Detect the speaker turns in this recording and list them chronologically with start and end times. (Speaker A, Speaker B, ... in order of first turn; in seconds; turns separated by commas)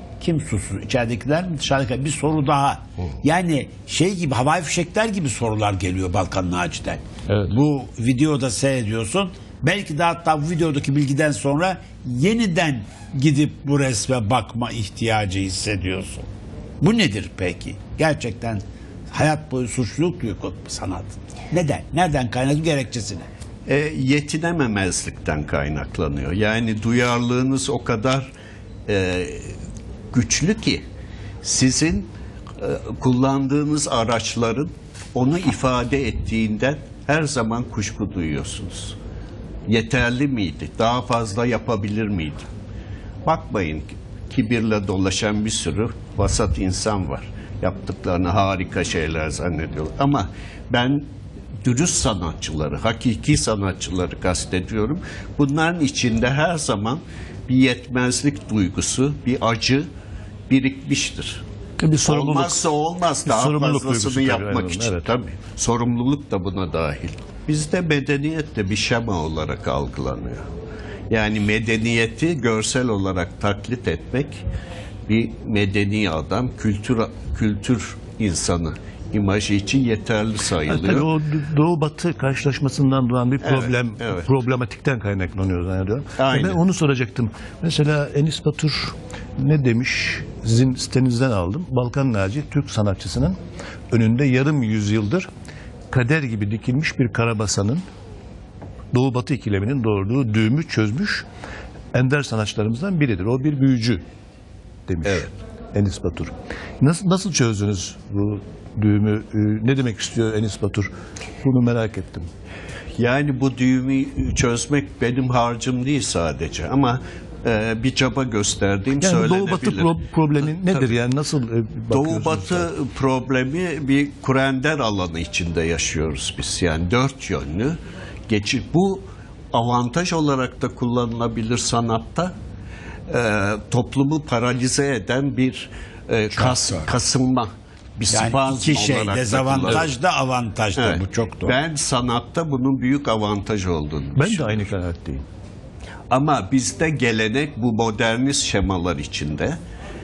Speaker A: 0.2-16.3, Speaker B: 7.3-7.5, Speaker A: 16.8-23.3, Speaker C: 23.6-28.3, Speaker C: 28.9-29.6, Speaker C: 30.1-30.8, Speaker C: 31.4-39.0, Speaker C: 39.7-42.5, Speaker C: 43.2-51.0, Speaker C: 51.6-59.9, Speaker C: 60.5-61.4, Speaker B: 61.8-62.7, Speaker C: 62.0-70.4, Speaker B: 63.2-65.1, Speaker C: 71.1-74.4, Speaker C: 75.1-81.1, Speaker B: 80.6-93.4, Speaker C: 83.4-84.3, Speaker C: 86.2-86.6, Speaker B: 93.9-95.3, Speaker B: 95.9-97.8, Speaker B: 98.9-101.3, Speaker B: 101.9-104.0, Speaker B: 104.9-110.9, Speaker B: 111.4-112.3, Speaker C: 113.0-121.0, Speaker B: 119.0-122.7, Speaker C: 121.9-132.3, Speaker C: 133.1-139.9, Speaker A: 136.3-136.9, Speaker A: 138.1-141.6, Speaker C: 140.8-144.7, Speaker B: 144.2-145.2, Speaker C: 146.1-149.6